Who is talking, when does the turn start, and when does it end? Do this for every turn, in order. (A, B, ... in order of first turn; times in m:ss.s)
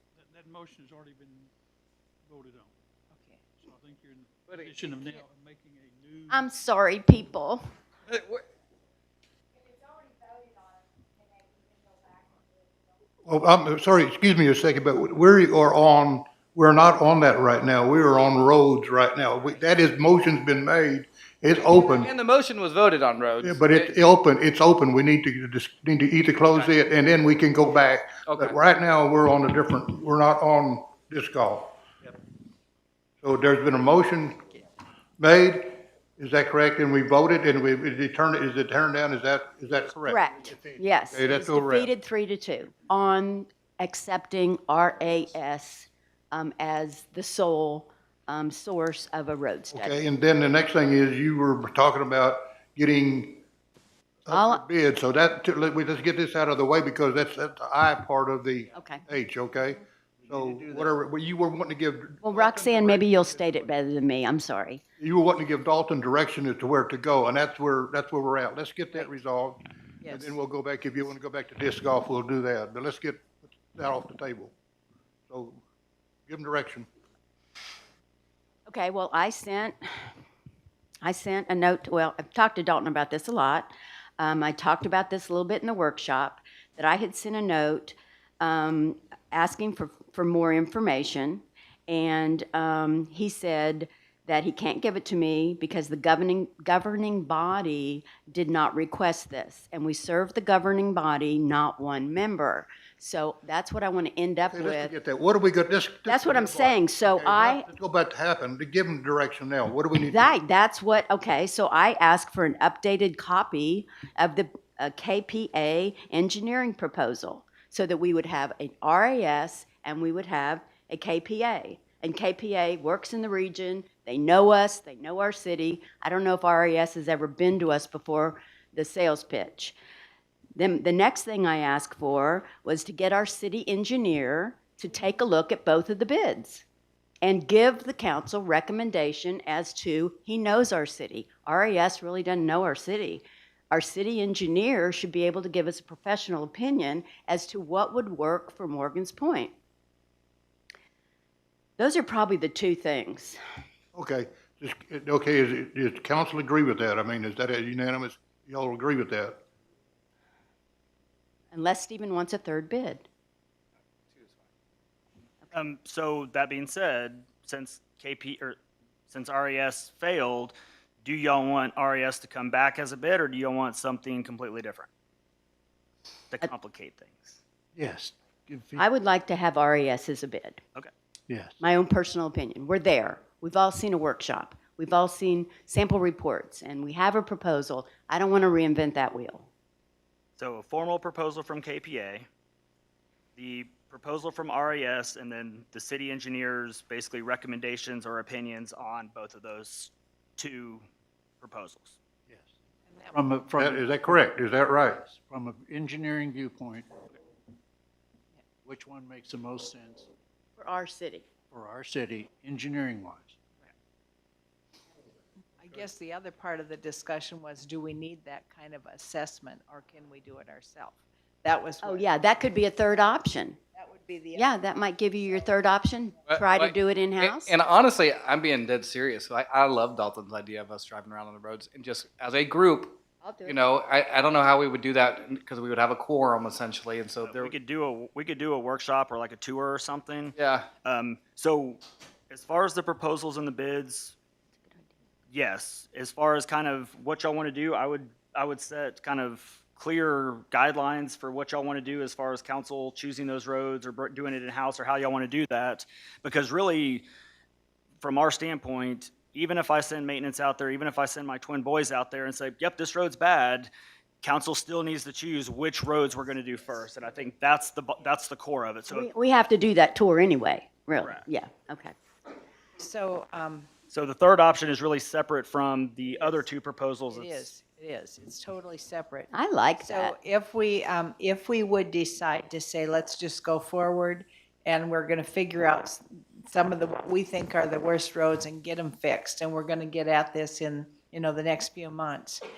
0:00.2-0:01.5 A
0:02.3-0:02.7 A
0:03.1-0:03.4 B
0:03.6-0:04.0 C
0:04.2-0:06.5 A
0:04.5-0:04.9 D
0:04.7-0:05.2 C
0:06.3-0:07.6 E
0:08.1-0:08.4 D
0:13.3-0:22.1 F
0:21.8-0:23.9 D
0:23.4-0:31.8 F
0:28.3-0:28.6 D
0:33.2-0:34.4 F
0:35.2-0:41.9 F
0:40.1-0:50.0 E
0:49.7-0:53.4 F
0:54.3-1:03.7 F
0:54.3-0:54.6 E
0:58.8-0:59.0 E
1:00.3-1:00.8 C
1:02.2-1:04.8 E
1:05.0-1:14.5 F
1:10.0-1:10.4 B
1:15.3-1:15.6 F
1:16.3-1:16.9 F
1:18.7-1:19.8 E
1:21.0-1:44.9 E
1:44.5-1:50.3 F
1:46.1-1:47.6 E
1:50.1-2:09.8 E
2:10.6-2:16.6 E
2:17.2-2:29.5 E
2:31.8-2:33.4 E
2:33.9-2:39.4 F
2:41.5-2:43.0 E
2:45.5-2:48.6 G
2:49.1-2:54.9 G
2:56.3-2:57.4 G
2:57.8-2:58.8 C
2:58.8-3:00.6 E
3:01.3-3:01.6 C
3:01.6-3:09.5 E
3:10.4-3:12.3 G
3:13.4-3:20.8 G
3:21.4-3:22.0 G
3:22.9-3:23.2 B
3:23.1-3:24.2 C
3:23.6-3:25.0 F
3:25.0-3:26.9 C
3:28.6-3:30.1 C
3:30.6-3:31.2 E
3:31.5-3:33.4 C
3:35.6-3:42.1 B
3:41.8-3:43.6 E
3:43.7-3:45.6 B
3:44.4-3:47.5 E
3:46.3-3:57.5 D
3:53.2-3:53.6 E
3:57.2-4:01.8 G
4:00.4-4:00.7 D
4:02.3-4:04.2 G
4:05.3-4:17.1 G
4:18.0-4:23.7 G
4:24.2-4:29.1 G
4:28.9-4:31.9 E
4:32.8-4:33.7 B
4:33.9-4:37.5 G
4:36.0-4:36.4 B
4:37.1-4:52.4 B
4:39.3-4:40.1 E